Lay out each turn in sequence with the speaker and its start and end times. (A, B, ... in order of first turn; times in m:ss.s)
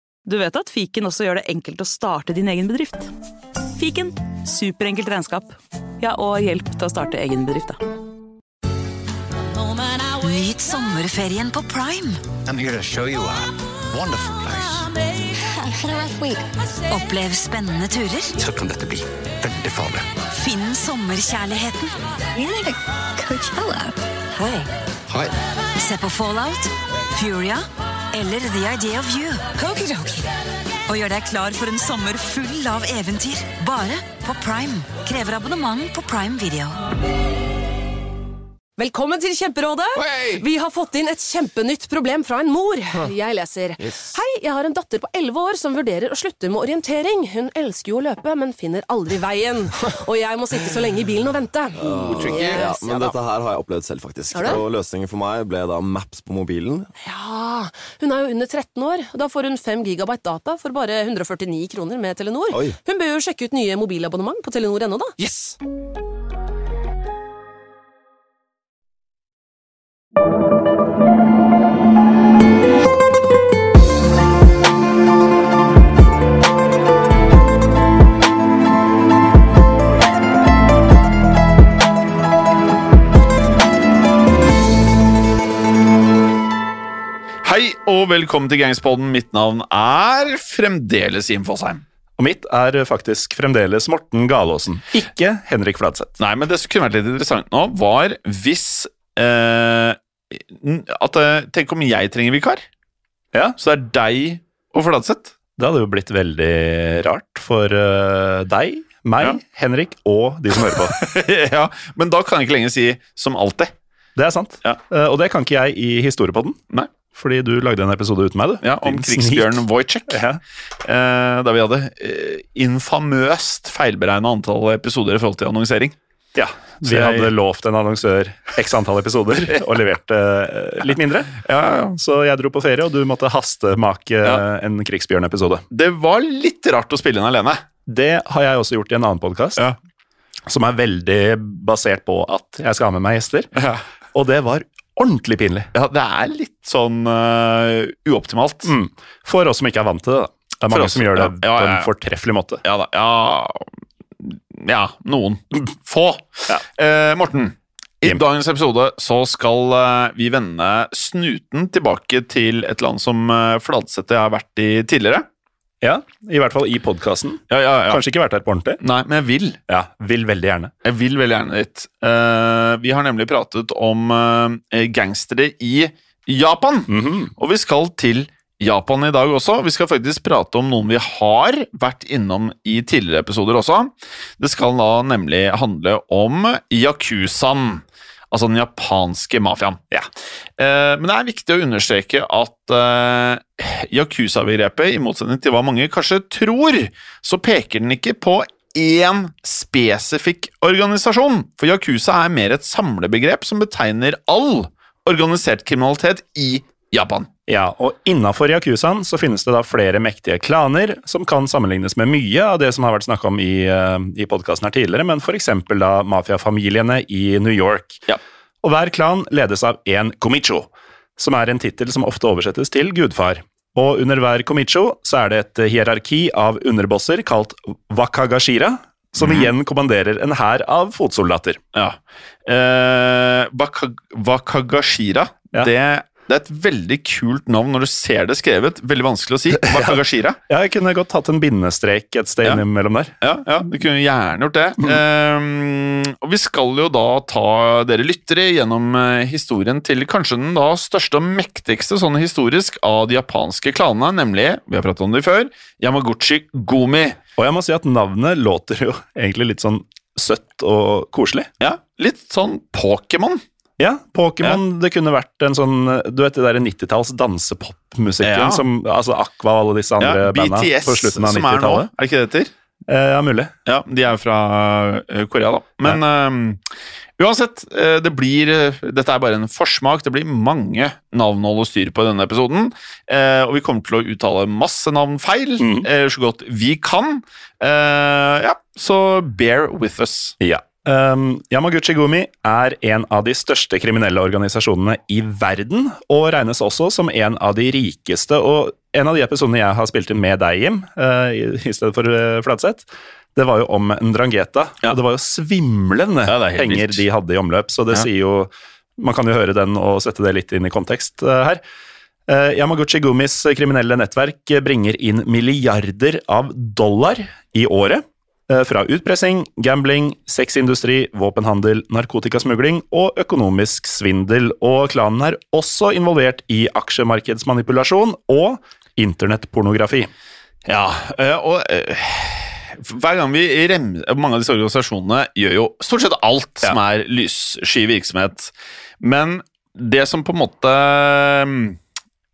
0:00.2-0:03.1 A
0:03.8-0:07.8 A
0:10.2-0:12.2 B
0:12.4-0:14.9 C
0:15.6-0:16.4 D
0:16.9-0:18.3 B
0:18.4-0:20.1 C
0:20.3-0:22.0 B
0:22.4-0:23.9 D
0:24.3-0:24.7 B
0:25.8-0:30.3 B
0:30.9-0:36.8 B
0:38.8-0:53.2 E
0:51.8-0:56.9 F
0:54.3-0:54.6 E
0:57.0-1:05.2 E
1:02.5-1:02.8 F
1:27.4-1:31.8 G
1:32.2-1:36.2 H
1:36.2-1:42.6 G
1:43.6-1:45.3 G
1:45.6-1:51.0 H
1:50.6-1:53.7 G
1:54.2-1:56.6 H
1:57.1-2:00.4 H
1:58.6-2:00.2 G
2:00.8-2:05.9 G
2:06.3-2:11.4 H
2:06.8-2:07.3 G
2:11.4-2:11.9 G
2:11.9-2:15.6 H
2:15.7-2:17.6 G
2:17.9-2:19.6 H
2:20.5-2:23.5 H
2:23.5-2:23.8 G
2:24.1-2:25.7 H
2:25.7-2:28.7 G
2:28.6-2:32.6 H
2:30.7-2:31.9 G
2:32.6-2:33.6 G
2:34.2-2:45.2 G
2:45.8-2:48.8 H
2:47.5-2:48.0 G
2:48.8-2:49.6 G
2:49.7-2:50.7 H
2:50.8-3:09.8 G
2:56.9-2:57.3 H
3:10.6-3:27.3 G
3:27.5-3:38.0 H
3:38.6-3:51.6 H
3:49.2-3:49.5 G
3:51.7-4:00.4 G
3:59.6-4:03.1 H
4:03.2-4:17.2 G
4:17.4-4:21.5 H
4:21.6-4:23.4 G
4:23.8-4:31.9 H
4:28.2-4:28.6 G
4:30.0-4:32.5 G
4:32.9-4:33.5 H
4:33.6-4:36.6 G
4:37.2-4:50.3 G
4:45.6-4:45.9 H
4:50.4-5:11.6 H
5:06.3-5:07.0 G
5:12.3-5:30.1 H
5:30.7-5:41.8 G